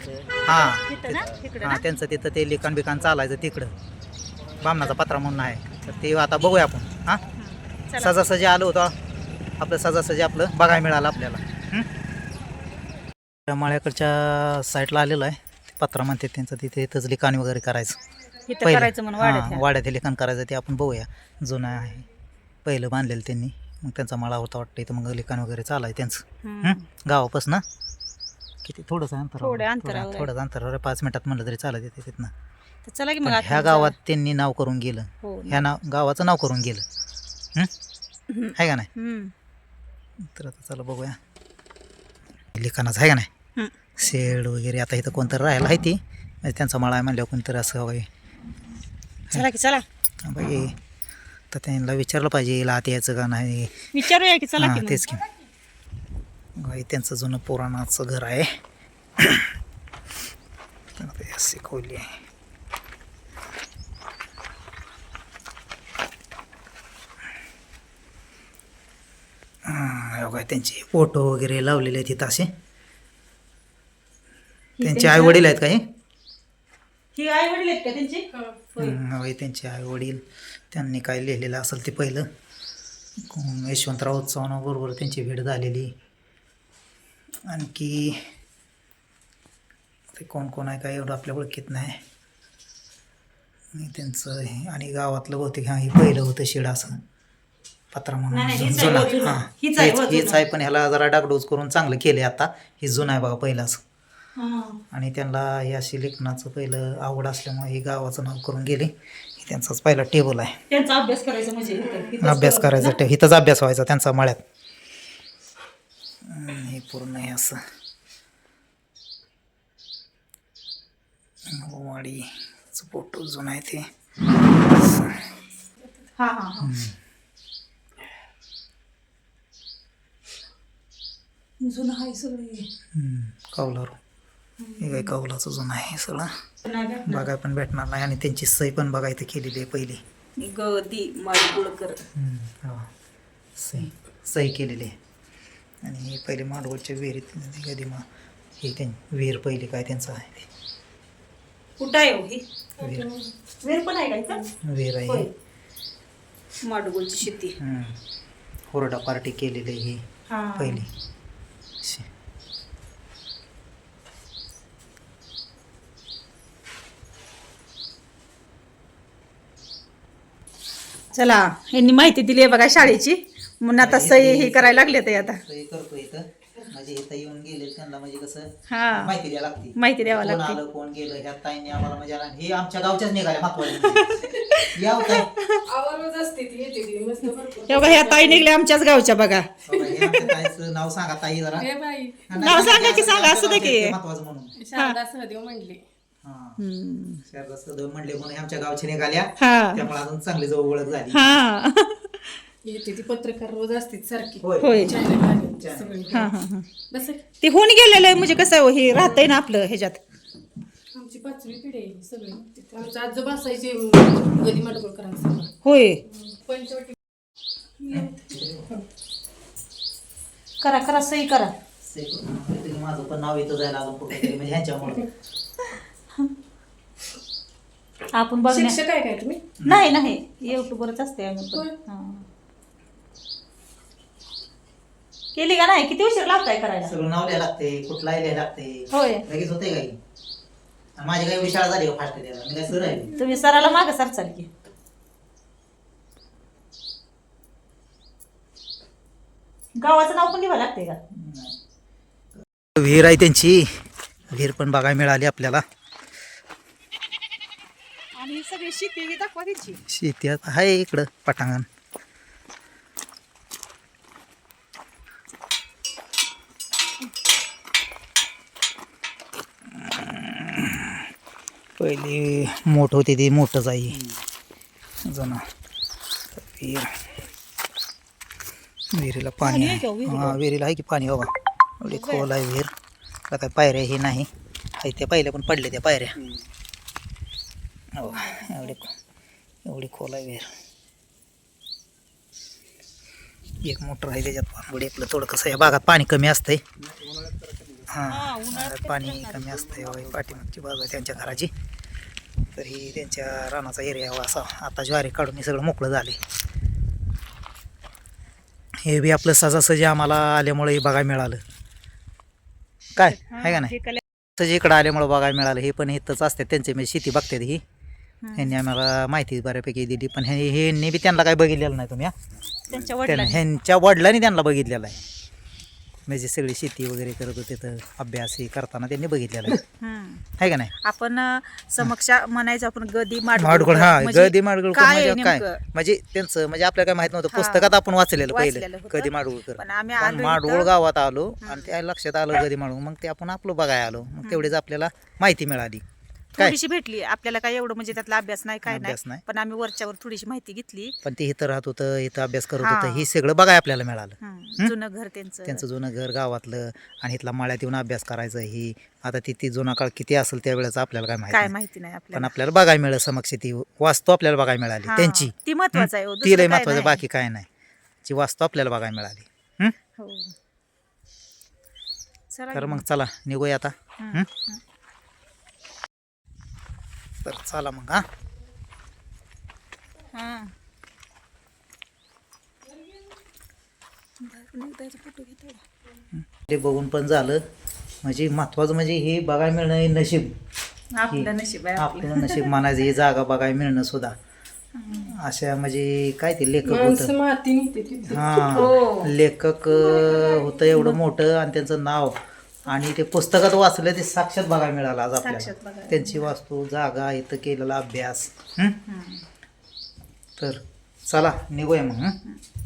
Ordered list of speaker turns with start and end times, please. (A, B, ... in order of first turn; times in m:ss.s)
0:00.4-0:03.7 A
0:00.5-0:01.9 B
0:04.6-0:07.2 A
0:05.8-0:06.1 B
0:07.3-0:08.1 B
0:08.0-0:08.9 A
0:09.6-0:11.9 A
0:13.5-0:18.0 A
0:18.5-0:19.6 B
0:18.6-0:22.1 A
0:22.6-0:27.6 A
0:26.4-0:26.8 B
0:28.6-0:32.3 A
0:29.4-0:30.3 B
0:32.8-0:33.9 B
0:33.2-0:36.8 A
0:35.2-0:35.6 B
0:38.3-0:39.3 B
0:38.6-0:38.9 A
0:40.3-0:41.2 A
0:42.5-0:43.3 A
0:44.0-0:48.1 A
0:49.3-0:49.8 B
0:50.2-0:50.8 A
0:51.5-0:53.9 A
0:53.9-0:55.1 B
0:54.6-0:55.2 A
0:56.6-0:58.5 A
0:59.2-0:59.5 A
1:01.0-1:02.2 A
1:09.6-1:12.5 A
1:14.8-1:15.4 B
1:14.8-1:15.8 A
1:17.2-1:18.2 B
1:18.3-1:18.8 C
1:18.8-1:22.3 A
1:23.2-1:25.9 A
1:27.5-1:28.3 A
1:30.1-1:32.0 A
1:33.7-1:37.0 A
1:37.9-1:43.8 A
1:38.3-1:40.4 B
1:44.4-1:44.8 B
1:44.9-1:50.6 A
1:50.7-1:53.0 B
1:52.2-1:54.4 A
1:56.2-1:57.6 A
2:01.5-2:03.9 A
2:04.8-2:05.2 A
2:06.2-2:06.7 B
2:06.6-2:06.9 A
2:11.6-2:12.7 B
2:12.9-2:14.0 A
2:14.6-2:15.1 B
2:14.8-2:16.3 A
2:16.6-2:17.3 B
2:17.0-2:20.0 A
2:20.4-2:22.0 B
2:22.1-2:22.9 A
2:23.6-2:25.0 A
2:25.8-2:28.0 A
2:28.6-2:30.5 A
2:31.8-2:32.4 B
2:32.8-2:33.3 C
2:32.8-2:33.1 A
2:33.6-2:34.4 B
2:34.6-2:35.3 A
2:36.6-2:37.5 B
2:37.6-2:38.0 A
2:38.7-2:40.0 A
2:40.3-2:40.8 B
2:40.6-2:40.9 A
2:41.8-2:42.1 A
2:51.1-2:55.4 B
2:53.8-3:05.3 A
2:58.7-2:59.1 B
2:59.8-3:00.6 B
3:03.6-3:05.6 B
3:05.6-3:08.5 C
3:07.6-3:10.3 B
3:09.6-3:11.7 A
3:09.7-3:10.3 C
3:11.6-3:12.5 C
3:12.3-3:14.5 A
3:12.4-3:14.0 B
3:14.6-3:15.8 C
3:14.7-3:15.0 B
3:16.2-3:16.6 A
3:16.6-3:17.2 B
3:17.2-3:21.3 A
3:19.4-3:19.9 B
3:21.1-3:22.4 B
3:22.6-3:26.3 C
3:24.4-3:25.0 A
3:24.6-3:25.0 B
3:25.6-3:26.0 A
3:26.1-3:26.7 B
3:26.9-3:27.2 C
3:27.4-3:30.0 B
3:30.9-3:35.5 C
3:35.6-3:36.0 B
3:36.1-3:37.0 C
3:37.8-3:38.2 C
3:37.9-3:38.7 A
3:40.6-3:41.5 B
3:41.8-3:45.1 A
3:48.1-3:48.8 B
3:48.4-3:49.4 C
3:49.6-3:50.0 A
3:49.6-3:52.2 B
3:55.3-3:56.9 B
3:56.8-4:00.0 A
3:58.9-3:59.2 B
4:01.0-4:03.1 A
4:03.0-4:04.5 B
4:09.8-4:11.0 B
4:11.1-4:11.6 A
4:12.7-4:13.7 A
4:14.3-4:15.6 A
4:18.2-4:19.8 B
4:19.8-4:21.7 A
4:29.7-4:31.0 A
4:31.8-4:34.0 A
4:35.0-4:35.4 A
4:36.3-4:37.0 A
4:38.9-4:42.7 A
4:39.4-4:40.4 B
4:41.9-4:42.3 B
4:43.3-4:46.2 A
4:48.0-4:48.9 A
4:48.0-4:48.8 B
4:49.6-4:50.5 A
4:53.6-4:56.6 A
4:57.9-5:01.5 A
4:58.1-4:59.6 B
5:02.5-5:06.2 A
5:08.8-5:11.4 A
5:13.0-5:13.8 A
5:13.0-5:14.0 B
5:14.4-5:17.6 A
5:18.2-5:18.6 B
5:18.4-5:22.1 A
5:22.7-5:23.4 B
5:23.0-5:25.0 A
5:26.1-5:29.6 A
5:29.8-5:30.2 B
5:30.4-5:30.7 A
5:30.8-5:35.6 B
5:33.3-5:45.8 A
5:37.3-5:37.8 B
5:38.3-5:40.7 B
5:41.4-5:41.7 B
5:44.2-5:44.5 B
5:46.4-5:50.9 B
5:48.6-5:49.2 A
5:51.0-5:54.7 A
5:52.6-5:53.1 B
5:54.2-5:55.6 B
5:55.5-6:01.5 A
6:01.3-6:02.3 B
6:02.1-6:07.5 A
6:04.8-6:07.0 B
6:08.0-6:09.7 A
6:10.0-6:10.3 B
6:12.3-6:12.8 B
6:12.5-6:14.3 A
6:14.0-6:14.6 B
6:17.2-6:18.0 A
6:20.1-6:20.5 B
6:24.2-6:25.6 B
6:26.1-6:27.4 A
6:28.0-6:30.3 A
6:30.9-6:32.2 B
6:31.1-6:34.1 A
6:34.7-6:35.1 B
6:35.0-6:37.1 A
6:36.6-6:38.7 C
6:38.0-6:48.8 A
6:38.5-6:39.1 B
6:39.8-6:40.8 C
6:45.2-6:46.3 B
6:48.8-6:49.2 B
6:50.4-6:52.2 A